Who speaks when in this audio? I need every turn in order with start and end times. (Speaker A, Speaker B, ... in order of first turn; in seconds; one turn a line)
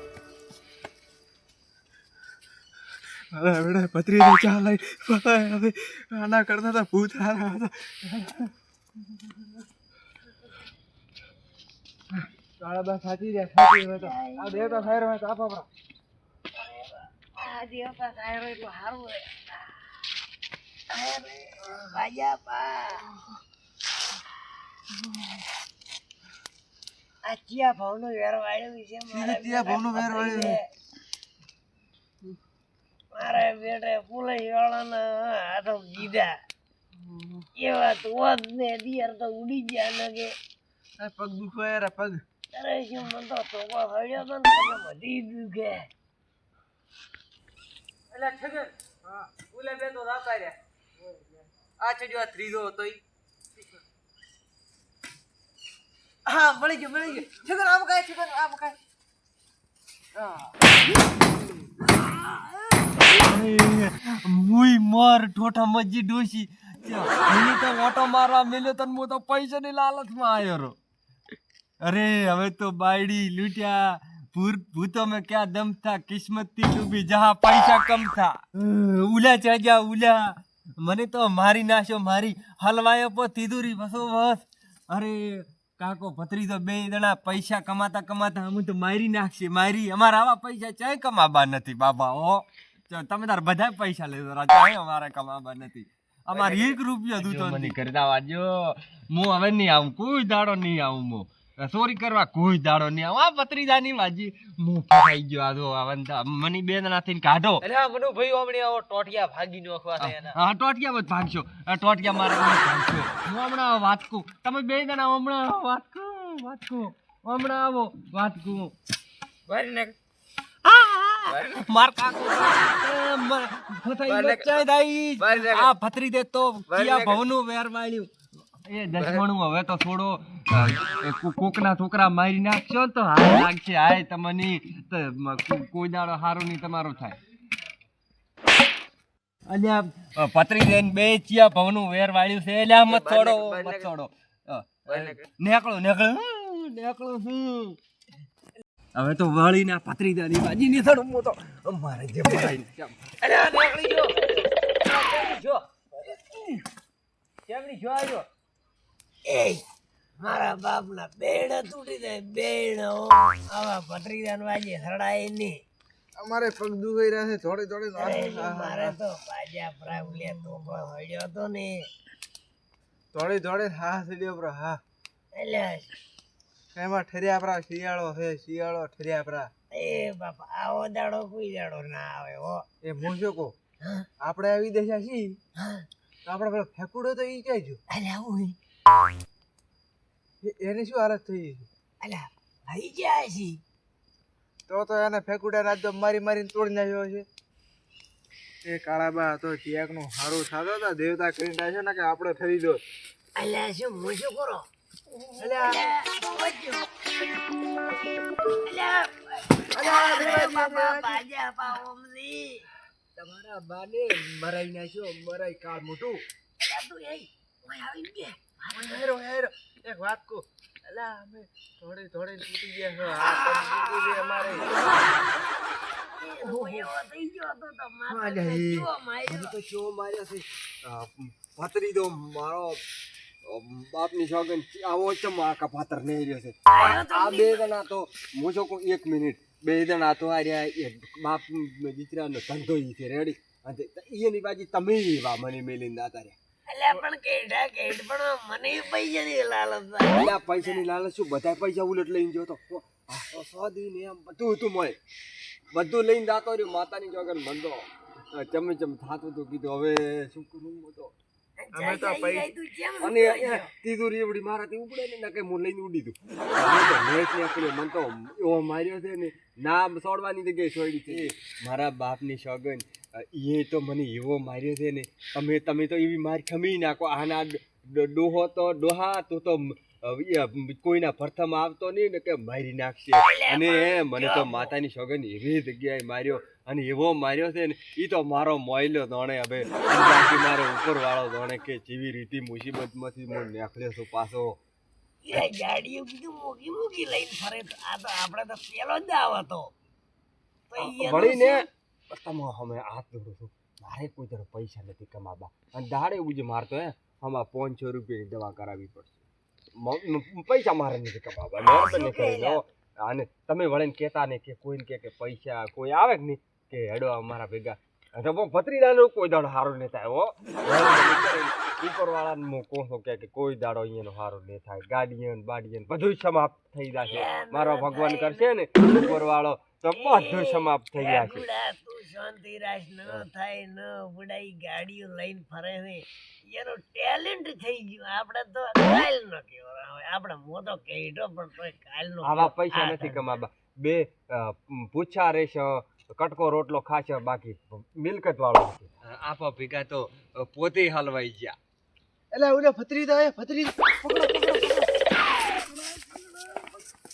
Speaker A: 3.3-8.4
Speaker A: 12.6-15.7
Speaker B: 13.6-14.9
Speaker B: 16.6-19.7
Speaker B: 20.9-23.1
Speaker B: 27.2-30.6
Speaker A: 29.1-30.6
Speaker B: 33.1-36.3
Speaker B: 37.6-40.3
Speaker A: 41.0-42.2
Speaker B: 42.5-45.9
Speaker A: 48.1-50.6
Speaker A: 51.8-53.0
Speaker A: 56.2-58.8
Speaker C: 62.9-70.8
Speaker C: 71.8-107.6
Speaker A: 96.4-96.7
Speaker A: 107.6-110.3
Speaker C: 110.0-118.7
Speaker A: 119.5-119.9
Speaker C: 120.6-128.1
Speaker A: 121.3-121.6
Speaker A: 124.1-124.6
Speaker A: 125.2-125.7
Speaker A: 126.7-127.2
Speaker C: 128.6-137.2
Speaker C: 139.5-147.8
Speaker A: 142.9-143.9
Speaker A: 144.9-145.2
Speaker C: 148.9-153.2
Speaker A: 153.2-154.1
Speaker A: 154.8-156.4
Speaker A: 157.5-158.2
Speaker B: 159.2-159.6
Speaker B: 160.2-165.6
Speaker A: 166.2-168.9
Speaker B: 168.0-171.9
Speaker A: 173.1-174.8
Speaker B: 175.3-175.9
Speaker A: 176.8-179.5
Speaker B: 179.7-182.6
Speaker A: 182.8-183.5
Speaker A: 184.2-185.4
Speaker B: 185.6-185.9
Speaker A: 186.2-187.8
Speaker B: 187.9-188.6
Speaker A: 190.4-191.7
Speaker B: 192.0-193.6
Speaker A: 194.7-197.2
Speaker A: 198.6-202.8
Speaker B: 203.4-204.7
Speaker C: 205.4-205.7
Speaker B: 205.4-206.9
Speaker B: 208.6-212.7
Speaker A: 209.7-211.2
Speaker C: 213.2-216.2
Speaker B: 216.6-219.0
Speaker A: 218.7-224.6
Speaker B: 223.1-224.8
Speaker C: 223.1-224.7
Speaker B: 226.2-229.6
Speaker C: 226.5-226.9
Speaker C: 228.1-232.8
Speaker C: 233.4-246.4
Speaker B: 236.7-237.7
Speaker B: 246.7-250.9
Speaker C: 250.1-255.0
Speaker C: 255.7-261.1
Speaker B: 261.6-263.7
Speaker A: 261.7-262.5
Speaker C: 263.0-294.6
Speaker B: 283.2-284.7
Speaker B: 295.2-299.7
Speaker B: 300.7-301.6
Speaker C: 300.8-309.2
Speaker C: 309.8-331.4
Speaker B: 311.6-312.6
Speaker B: 327.0-328.5
Speaker B: 329.9-343.3
Speaker C: 342.2-351.6
Speaker A: 352.3-356.7